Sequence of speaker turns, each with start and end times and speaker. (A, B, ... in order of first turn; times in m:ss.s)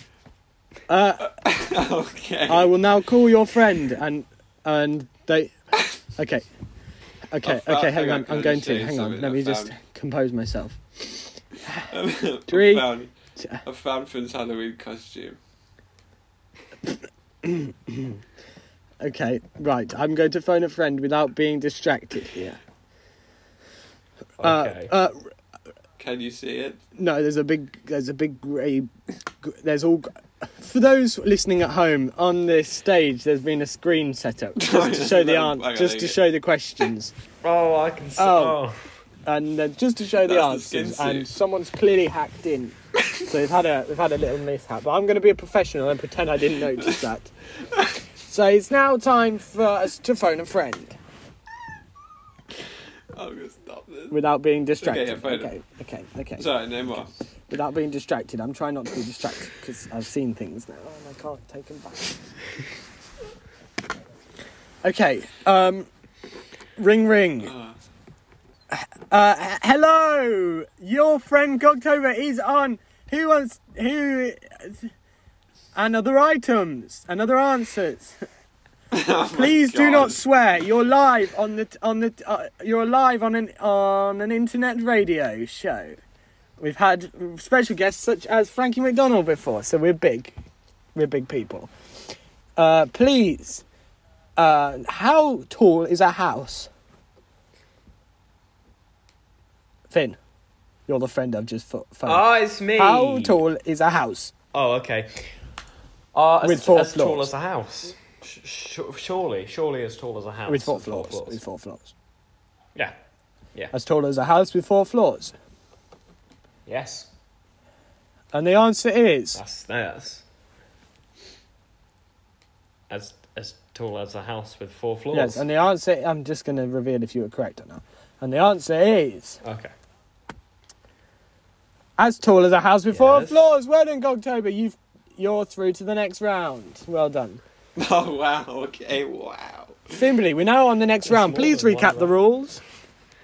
0:00.9-0:01.3 A
0:01.3-0:02.7 B
0:02.5-0:05.5 A
0:06.2-0:06.4 A
0:07.3-0:11.9 A
0:07.4-0:09.7 B
0:11.9-0:13.1 B
0:12.5-0:13.6 A
0:13.6-0:15.4 B
0:17.4-0:18.2 A
0:19.0-0:22.6 A
0:24.4-0:24.9 C
0:24.4-0:25.2 A
0:26.0-0:26.8 B
0:26.9-0:28.9 A
0:29.4-0:37.1 A
0:34.6-0:36.2 B
0:37.4-0:38.8 C
0:38.2-0:38.6 A
0:39.2-0:47.3 A
0:40.2-0:41.3 B
0:48.2-0:51.0 A
0:53.1-0:54.2 B
0:54.1-0:56.6 A
0:54.8-0:55.5 B
0:56.4-0:57.1 B
0:57.5-1:02.1 A
1:04.8-1:05.9 A
1:06.8-1:07.5 A
1:07.4-1:07.7 B
1:08.7-1:14.9 A
1:15.7-1:18.2 A
1:18.9-1:20.2 B
1:19.3-1:26.0 A
1:26.6-1:30.4 A
1:30.9-1:31.7 A
1:32.6-1:33.6 A
1:34.4-1:36.7 A
1:39.9-1:40.2 A
1:40.9-1:44.3 A
1:42.0-1:43.4 C
1:44.5-1:45.3 C
1:46.1-1:51.4 C
1:46.4-1:47.3 A
1:50.5-1:51.9 A
1:53.7-1:55.3 A
1:56.6-1:57.1 C
1:58.3-1:59.4 A
1:59.3-2:00.2 C
2:02.9-2:05.4 C
2:05.1-2:09.4 A
2:09.4-2:09.7 C
2:12.0-2:17.4 A
2:12.9-2:13.4 C
2:17.8-2:20.0 B
2:19.9-2:22.6 A
2:21.0-2:22.1 C